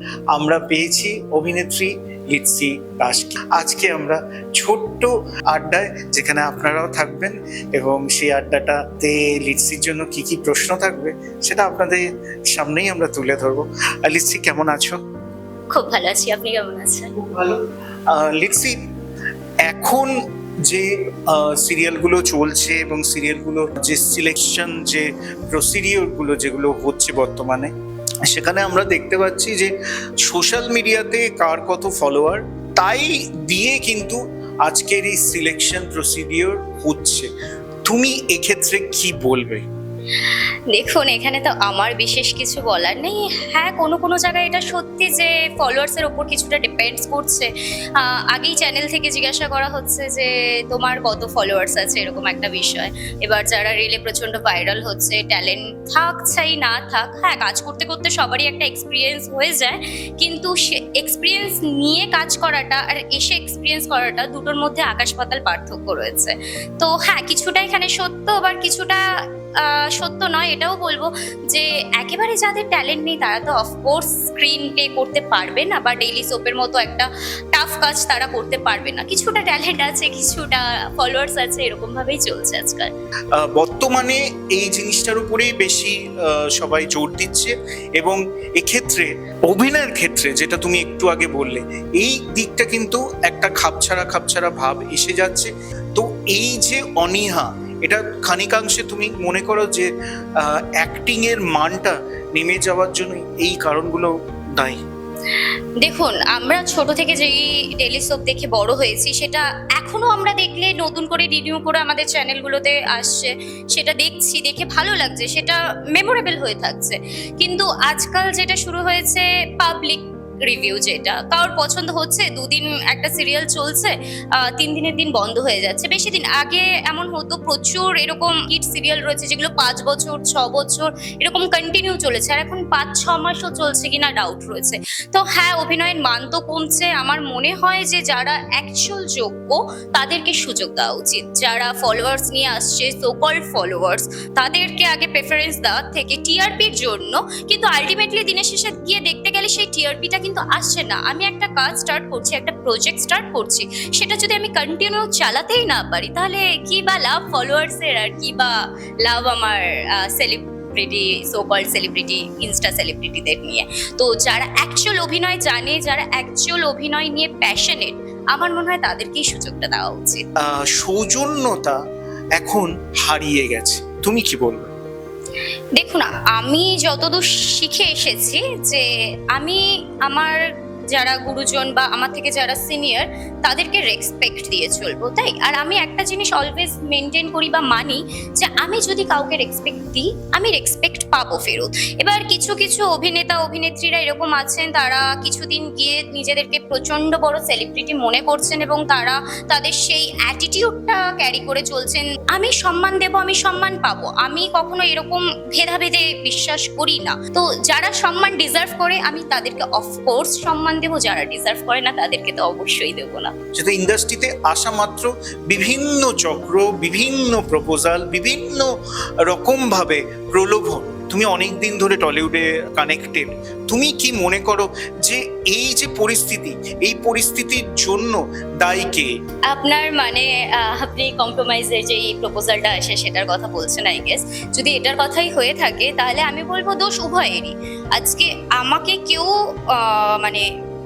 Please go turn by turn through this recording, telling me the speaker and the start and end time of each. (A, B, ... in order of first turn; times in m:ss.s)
0:00.3-0:15.0 A
0:15.7-0:17.1 B
0:17.2-0:17.6 A
0:18.1-0:18.8 A
0:19.7-0:20.1 A
0:20.7-0:27.7 A
0:28.3-0:29.7 A
0:30.3-0:37.3 A
0:37.9-0:39.6 A
0:40.2-1:09.0 B
1:09.6-1:22.9 B
1:23.4-1:44.8 A
1:45.4-2:50.2 B
2:50.4-2:51.8 A
2:52.4-2:54.7 A
2:55.8-3:33.3 B
3:33.6-3:38.7 A
3:39.3-3:49.1 A
3:49.5-4:00.5 B